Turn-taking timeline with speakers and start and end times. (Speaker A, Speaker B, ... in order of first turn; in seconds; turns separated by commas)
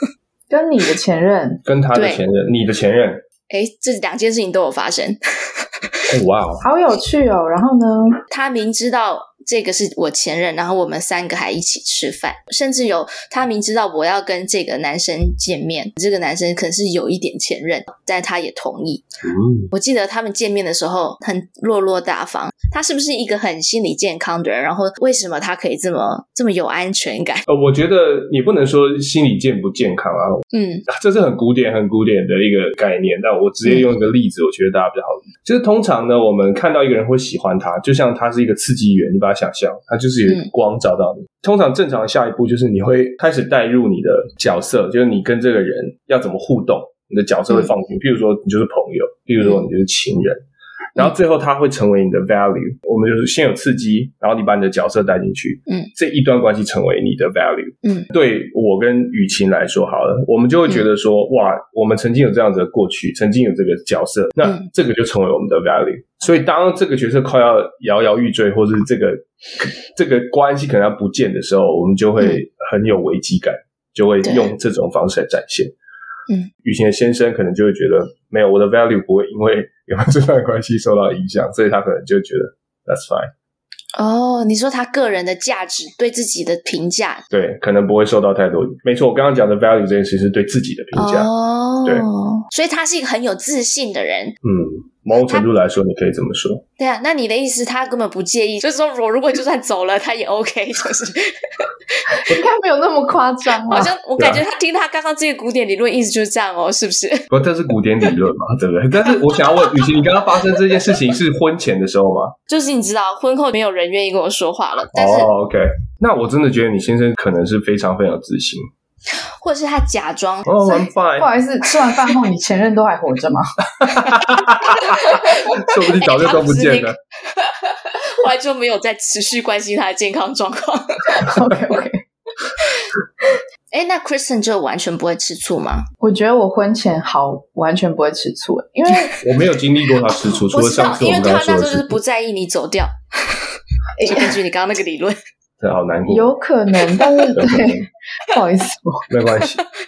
Speaker A: 0.5-1.6, Speaker B: 1.6-3.2, Speaker C: 1.9-2.2, Speaker C: 3.5-5.7, Speaker B: 6.1-6.6, Speaker A: 6.6-8.2, Speaker C: 8.3-19.1, Speaker B: 19.2-19.7, Speaker C: 19.7-27.5, Speaker B: 27.5-50.4, Speaker C: 30.5-30.9, Speaker C: 49.4-49.7, Speaker B: 51.0-75.7, Speaker C: 57.8-58.1, Speaker C: 64.4-64.7, Speaker C: 74.2-74.5, Speaker B: 76.6-83.3, Speaker C: 83.9-87.2, Speaker B: 87.3-91.3, Speaker C: 91.0-94.4, Speaker B: 94.4-96.6, Speaker C: 96.8-102.2, Speaker A: 102.3-103.9, Speaker C: 103.7-107.3, Speaker B: 107.3-112.3, Speaker C: 112.5-115.3, Speaker B: 114.9-118.7, Speaker C: 119.3-120.5, Speaker B: 120.5-121.3, Speaker A: 120.6-123.5, Speaker B: 123.8-127.0, Speaker C: 124.1-131.3, Speaker A: 131.1-132.0, Speaker C: 133.7-135.9, Speaker A: 136.0-139.2, Speaker B: 139.2-142.0, Speaker C: 140.1-143.4, Speaker A: 144.0-144.4, Speaker C: 144.0-145.2, Speaker B: 145.6-146.3, Speaker A: 146.1-149.1, Speaker B: 147.3-147.9, Speaker B: 149.1-149.6